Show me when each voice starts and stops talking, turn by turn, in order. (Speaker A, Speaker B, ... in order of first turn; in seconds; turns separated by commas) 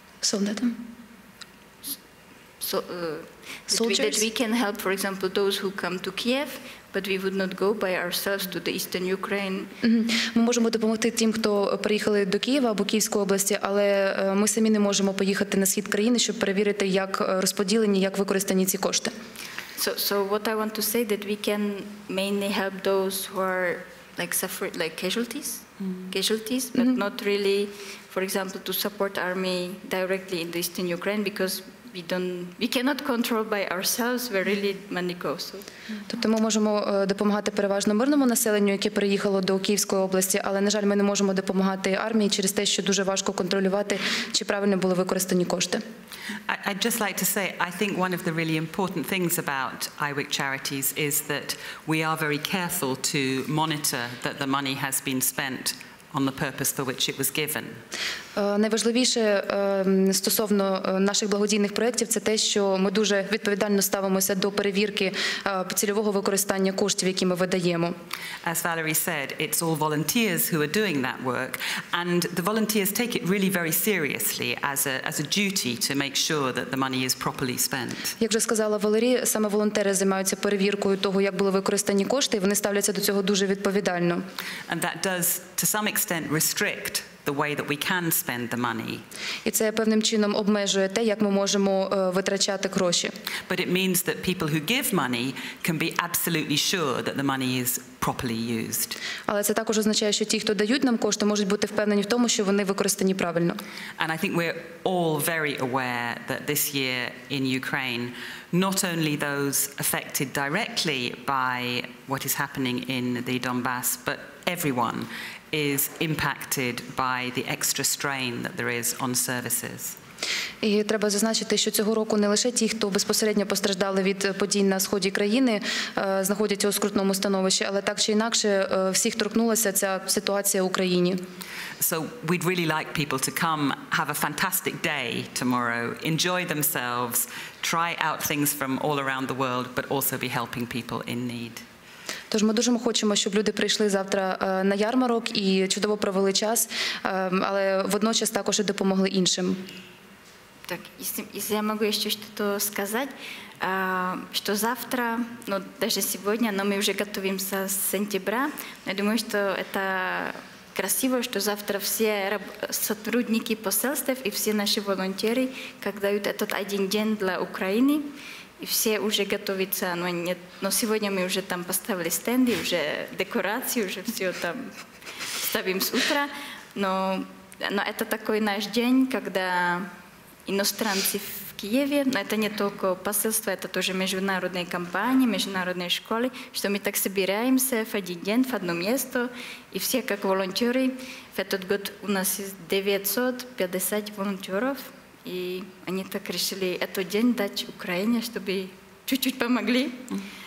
Speaker A: 0.2-0.8, Speaker B: 2.6-9.7, Speaker A: 3.7-4.2, Speaker A: 9.8-19.1, Speaker B: 19.8-35.7, Speaker A: 36.1-45.8, Speaker C: 46.5-57.8, Speaker A: 58.4-67.9, Speaker C: 68.4-78.1, Speaker A: 78.2-84.2, Speaker C: 84.7-89.0, Speaker A: 89.5-93.1, Speaker C: 93.5-99.0, Speaker A: 99.3-103.6, Speaker C: 104.0-120.0, Speaker A: 120.6-131.2, Speaker C: 131.8-141.6, Speaker A: 142.3-149.6, Speaker B: 150.7-168.1, Speaker B: 168.6-174.7, Speaker B: 175.4-179.9, Speaker B: 180.5-200.1